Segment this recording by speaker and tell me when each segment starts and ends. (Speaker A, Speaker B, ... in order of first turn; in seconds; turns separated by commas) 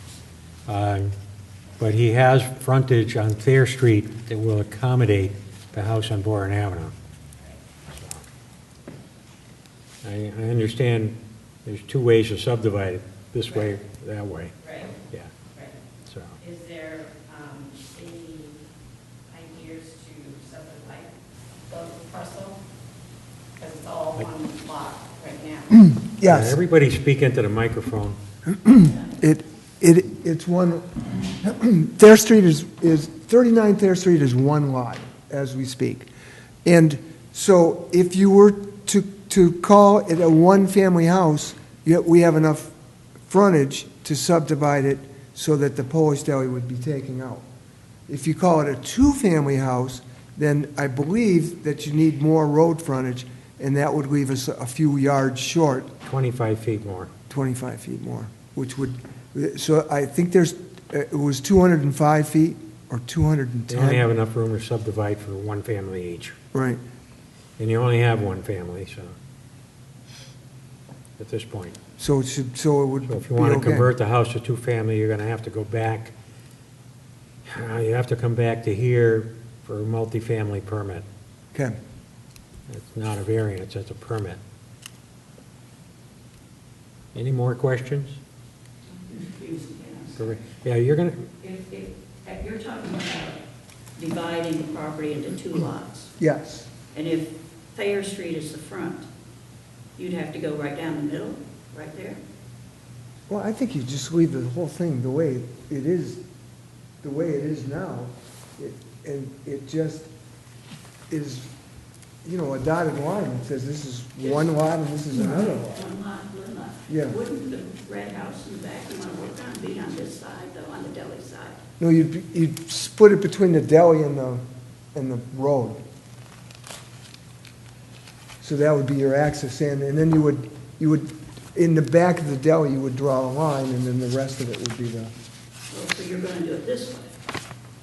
Speaker A: 0.7-1.1, Speaker A: 1.8-6.9, Speaker A: 7.9-8.2, Speaker A: 10.0-14.5, Speaker B: 14.6-15.0, Speaker B: 15.5-15.8, Speaker A: 16.1-16.4, Speaker B: 16.4-18.6, Speaker B: 19.3-21.1, Speaker B: 21.7-22.6, Speaker B: 23.6-26.0, Speaker C: 25.9-26.6, Speaker A: 26.2-28.2, Speaker C: 28.4-36.1, Speaker C: 36.6-42.7, Speaker C: 43.3-47.5, Speaker C: 48.1-55.9, Speaker A: 56.0-57.1, Speaker C: 57.3-64.0, Speaker A: 63.7-66.3, Speaker C: 66.5-66.8, Speaker A: 67.6-69.2, Speaker A: 71.2-71.8, Speaker C: 72.0-73.9, Speaker A: 73.1-76.1, Speaker A: 77.5-81.0, Speaker A: 82.7-84.4, Speaker A: 87.1-88.2, Speaker D: 89.0-90.3, Speaker A: 90.2-91.3, Speaker D: 91.4-93.4, Speaker D: 94.0-96.1, Speaker C: 96.2-96.7, Speaker D: 96.9-99.1, Speaker D: 100.0-102.2, Speaker C: 103.3-106.2, Speaker C: 107.0-110.1, Speaker C: 111.1-111.5, Speaker C: 112.2-115.9, Speaker D: 115.1-121.6, Speaker C: 116.9-117.2, Speaker C: 121.8-125.8, Speaker C: 128.4-135.1, Speaker D: 135.7-137.1